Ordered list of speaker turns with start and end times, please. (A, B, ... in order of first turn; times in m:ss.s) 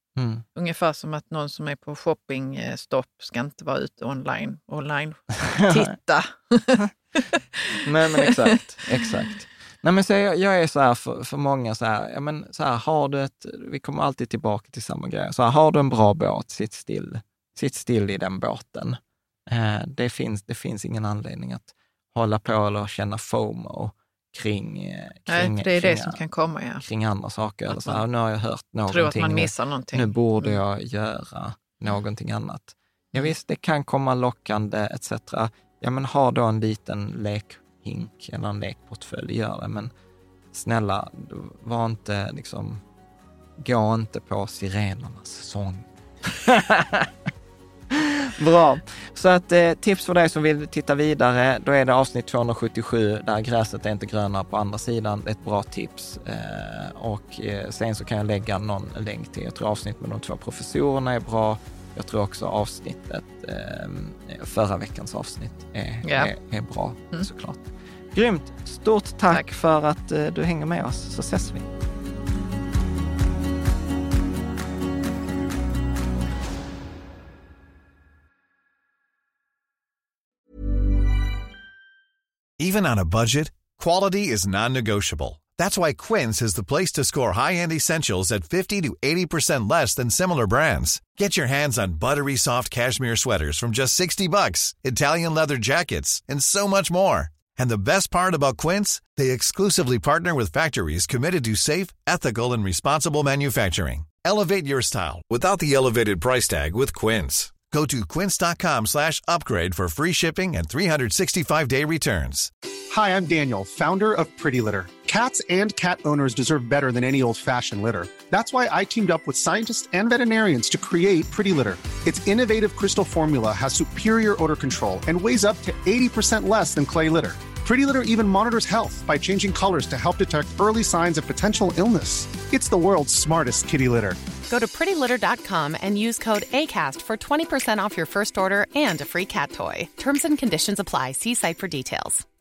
0:00.2-0:00.4 A
0:00.5-0:09.1 B
0:05.5-0:05.9 A
0:07.8-0:26.2 A
0:25.3-0:26.8 B
0:26.8-0:39.9 A
0:27.7-0:28.0 B
0:28.9-0:30.6 B
0:40.5-0:42.8 A
0:43.6-0:47.1 A
0:47.9-1:11.7 A
1:06.0-1:06.3 B
1:22.6-1:52.5 C
1:52.9-2:14.2 D
2:14.5-2:22.2 E